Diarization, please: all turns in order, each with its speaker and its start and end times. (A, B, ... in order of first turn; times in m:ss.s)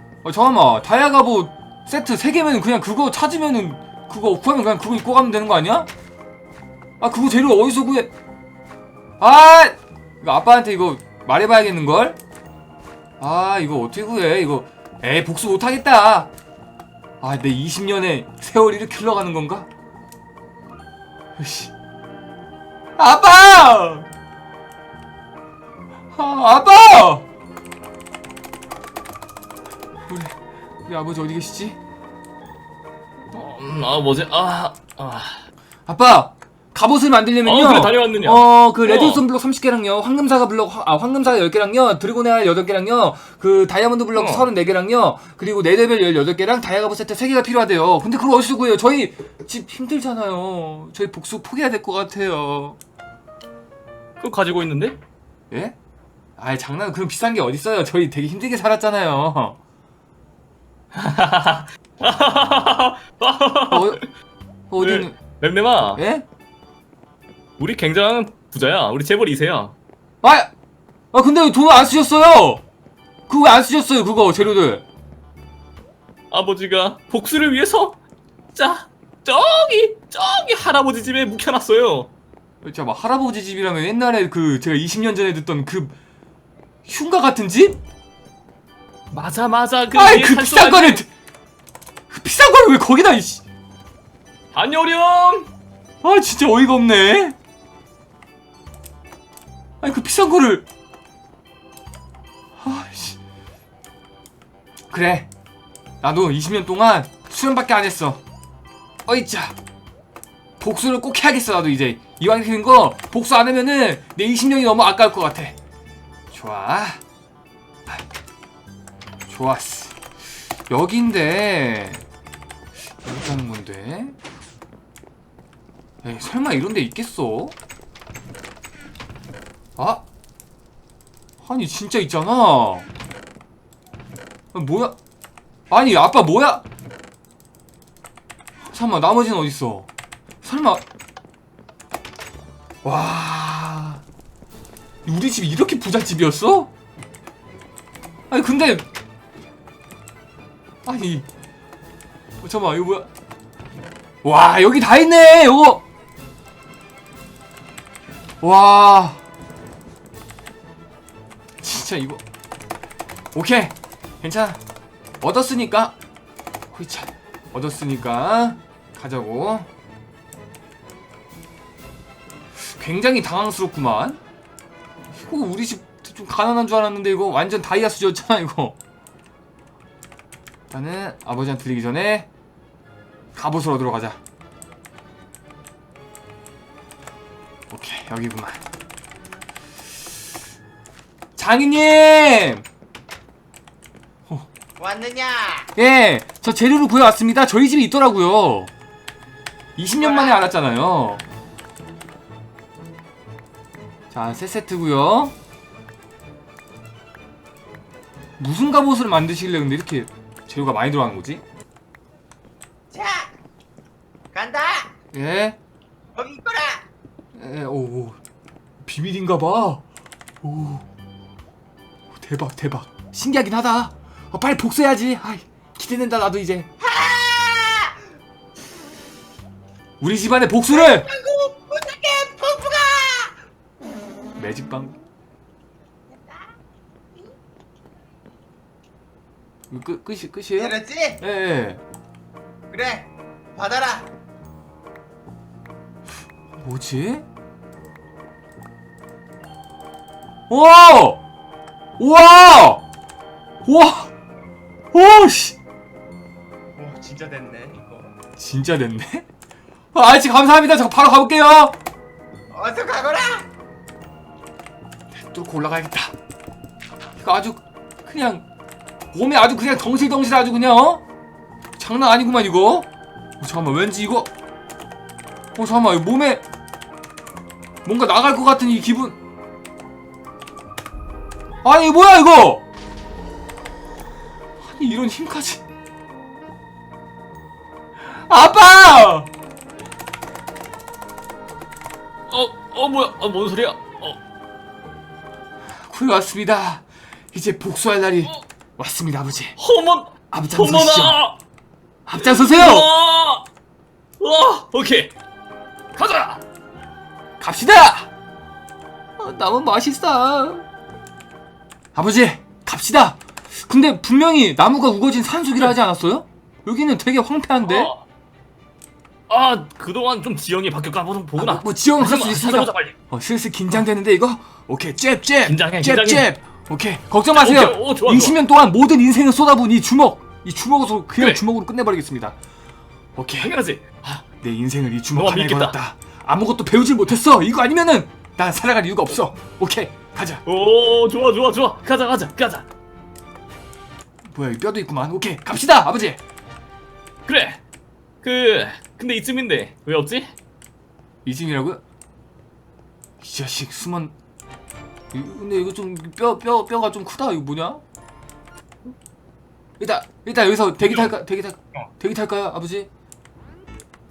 0:00.2-0:05.9 A
0:07.0-0:08.1 A
0:09.2-0:12.2 A
0:13.2-0:16.3 A
0:17.2-0:19.7 A
0:21.4-0:21.7 A
0:23.0-0:24.1 A
0:26.1-0:27.3 A
0:30.1-0:31.8 A
0:33.3-0:35.4 B
0:35.9-0:52.8 A
0:37.4-0:39.2 B
0:44.2-0:44.5 B
0:54.2-0:55.0 B
0:55.5-0:55.8 A
0:56.4-0:59.6 A
1:00.9-1:04.1 B
1:03.7-1:04.0 A
1:04.7-1:05.2 A
1:04.8-1:06.0 B
1:06.0-1:06.3 A
1:07.6-1:09.8 B
1:10.2-1:10.5 A
1:11.1-1:12.6 A
1:13.3-1:14.8 A
1:16.3-1:18.0 B
1:18.6-1:22.1 B
1:22.6-1:26.0 A
1:26.8-1:27.8 A
1:29.1-1:31.0 B
1:29.9-1:31.1 A
1:32.1-1:33.4 A
1:34.5-1:35.5 B
1:36.0-1:37.4 A
1:39.8-1:40.6 A
1:42.6-1:43.2 A
1:44.9-1:45.3 A
1:46.0-1:48.2 A
1:49.1-1:49.6 A
1:50.6-1:55.6 A
1:56.3-1:57.0 A
1:59.3-2:00.0 A
2:00.7-2:02.0 A
2:03.0-2:04.2 A
2:06.0-2:07.6 A
2:09.8-2:10.0 A
2:11.4-2:12.9 A
2:14.5-2:15.0 A
2:15.7-2:16.6 A
2:18.7-2:19.9 A
2:20.4-2:20.8 A
2:22.8-2:24.0 A
2:25.1-2:26.7 A
2:28.3-2:28.9 A
2:30.8-2:31.3 A
2:32.4-2:33.1 A
2:34.2-2:35.8 A
2:38.4-2:39.2 A
2:41.6-2:42.2 A
2:43.3-2:44.6 A
2:45.2-2:46.0 A
2:46.7-2:49.7 A
2:52.6-2:54.2 A
2:55.1-2:58.8 A
3:00.7-3:02.3 A
3:03.4-3:04.2 A
3:07.7-3:08.6 A
3:11.4-3:12.7 A
3:14.8-3:15.7 C
3:15.8-3:18.7 A
3:19.8-3:21.2 A
3:20.0-3:20.4 C
3:24.1-3:25.3 A
3:28.4-3:31.4 A
3:32.9-3:33.3 C
3:34.3-3:34.9 C
3:35.1-3:35.6 A
3:36.2-3:36.8 C
3:37.4-3:38.2 A
3:38.8-3:39.8 A
3:40.4-3:40.8 A
3:42.1-3:46.7 A
3:46.8-3:48.0 C
3:50.0-3:51.1 A
3:50.7-3:53.4 C
3:54.4-3:55.0 A
3:56.1-3:56.4 C
3:59.7-4:01.8 A
4:00.6-4:01.2 C
4:02.7-4:04.1 C
4:06.6-4:07.2 A
4:10.5-4:11.2 A
4:12.0-4:12.8 A
4:13.6-4:14.1 A
4:14.9-4:15.6 A
4:16.8-4:18.1 C
4:18.4-4:19.3 A
4:19.9-4:21.8 A
4:22.5-4:23.5 C
4:25.1-4:26.1 A
4:27.2-4:28.4 A
4:29.1-4:31.0 A
4:31.8-4:32.9 A
4:33.4-4:34.3 A
4:35.6-4:36.4 A
4:37.8-4:39.2 A
4:41.6-4:42.6 A
4:44.6-4:45.6 A
4:48.0-4:49.3 A
4:52.3-4:54.2 B
4:55.9-4:59.6 A
4:59.6-5:01.4 B
5:00.3-5:01.2 A
5:02.1-5:02.9 A
5:02.2-5:03.5 B
5:04.2-5:05.2 B
5:06.0-5:06.4 B
5:07.4-5:08.1 A
5:09.2-5:10.6 A
5:12.0-5:17.9 A
5:17.6-5:18.0 B
5:19.3-5:23.0 B
5:21.4-5:32.4 A
5:25.4-5:26.3 B
5:27.4-5:28.4 B
5:31.2-5:31.4 B
5:33.2-5:33.5 A
5:33.4-5:34.2 B
5:34.2-5:40.4 A
5:35.1-5:35.8 B
5:40.4-5:42.7 B
5:44.3-5:46.2 A
5:47.3-5:47.6 B
5:48.2-5:50.3 B
5:51.2-5:51.8 A
5:53.2-5:54.2 A
5:55.1-5:57.8 A
5:59.8-6:02.9 A
6:00.8-6:01.1 B